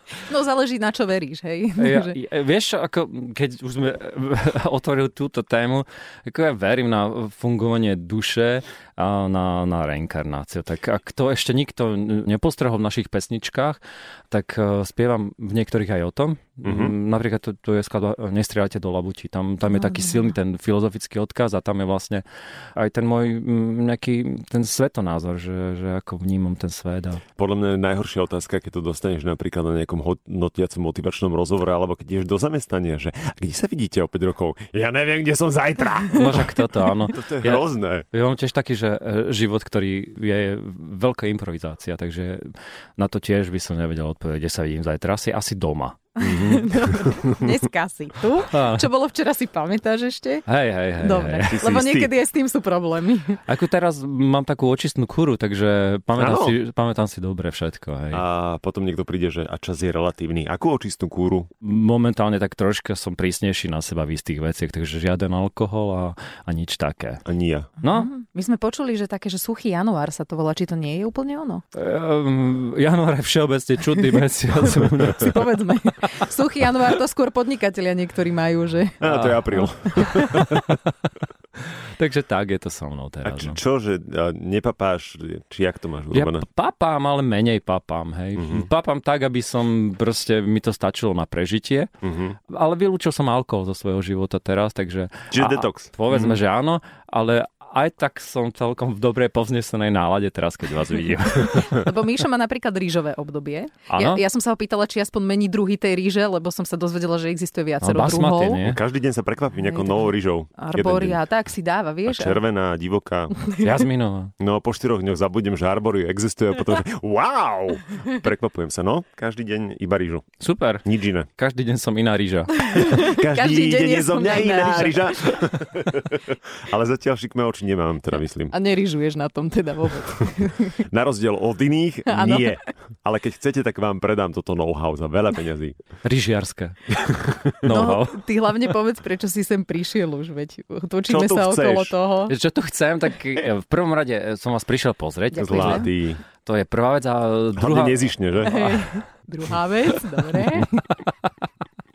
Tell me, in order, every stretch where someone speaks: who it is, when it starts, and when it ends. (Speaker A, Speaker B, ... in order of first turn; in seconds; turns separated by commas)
Speaker A: 0.2-2.2, Speaker B: 1.8-13.8, Speaker B: 14.3-22.2, Speaker C: 16.6-16.9, Speaker A: 19.7-20.3, Speaker B: 22.8-27.2, Speaker C: 27.4-38.0, Speaker B: 36.1-46.9, Speaker A: 46.2-50.5, Speaker B: 48.4-48.9, Speaker B: 50.5-51.6, Speaker A: 51.0-53.4, Speaker C: 51.5-52.1, Speaker B: 53.5-58.2, Speaker C: 56.1-56.6, Speaker C: 58.1-61.5, Speaker B: 61.6-67.2, Speaker C: 67.2-67.7, Speaker B: 67.8-68.1, Speaker A: 67.9-71.6, Speaker B: 71.7-75.4, Speaker A: 74.6-79.0, Speaker C: 79.0-80.7, Speaker B: 79.0-80.9, Speaker A: 79.7-80.4, Speaker B: 81.6-83.6, Speaker C: 83.2-86.4, Speaker B: 86.1-91.9, Speaker C: 88.4-88.7, Speaker C: 92.0-92.4, Speaker B: 92.5-101.8, Speaker C: 95.3-96.4, Speaker A: 101.4-108.6, Speaker B: 103.9-104.2, Speaker B: 107.8-108.8, Speaker C: 108.6-111.2, Speaker A: 109.7-112.4, Speaker C: 112.1-113.5, Speaker B: 113.6-114.3, Speaker C: 114.4-121.3, Speaker B: 120.4-122.7, Speaker A: 122.7-125.2, Speaker C: 122.7-128.5, Speaker A: 128.5-130.8, Speaker C: 130.8-135.8, Speaker A: 132.1-132.6, Speaker B: 136.0-138.7, Speaker C: 137.0-137.6, Speaker A: 137.7-142.3, Speaker C: 141.1-141.9, Speaker B: 142.3-145.9, Speaker A: 145.3-145.9, Speaker C: 145.4-146.2, Speaker B: 146.4-148.9, Speaker C: 147.6-148.6, Speaker A: 148.4-150.8, Speaker B: 150.3-151.3